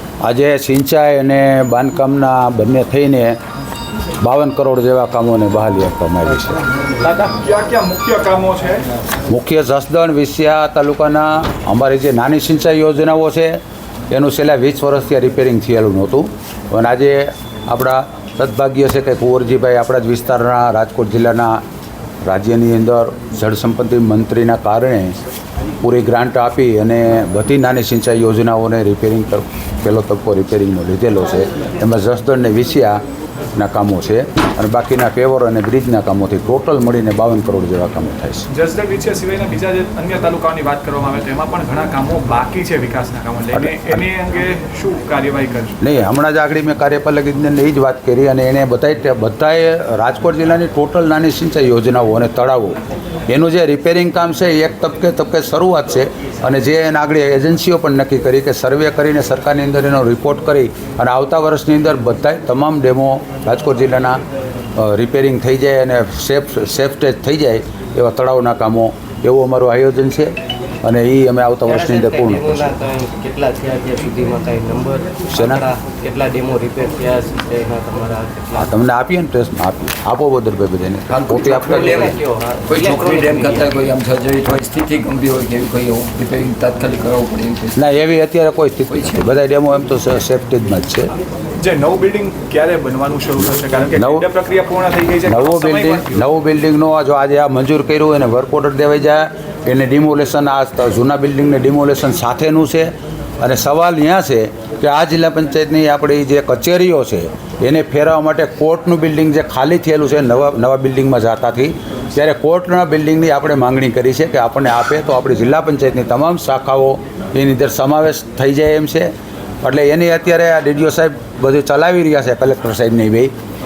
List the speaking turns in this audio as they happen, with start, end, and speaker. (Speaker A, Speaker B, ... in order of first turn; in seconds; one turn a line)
Speaker A: 0.2-3.4
Speaker A: 4.2-6.6
Speaker B: 7.4-8.8
Speaker A: 9.3-13.6
Speaker A: 14.1-21.6
Speaker A: 22.2-25.1
Speaker A: 25.8-33.0
Speaker A: 33.5-38.5
Speaker B: 38.5-45.8
Speaker A: 43.5-44.0
Speaker A: 45.8-52.8
Speaker A: 53.3-64.2
Speaker A: 64.8-72.8
Speaker C: 71.7-78.7
Speaker A: 75.3-75.7
Speaker A: 78.5-82.2
Speaker D: 81.1-82.2
Speaker C: 81.6-83.8
Speaker D: 82.7-87.8
Speaker A: 87.7-91.1
Speaker D: 88.9-89.3
Speaker B: 91.6-96.2
Speaker A: 93.9-94.3
Speaker A: 95.2-119.1
Speaker A: 119.6-123.3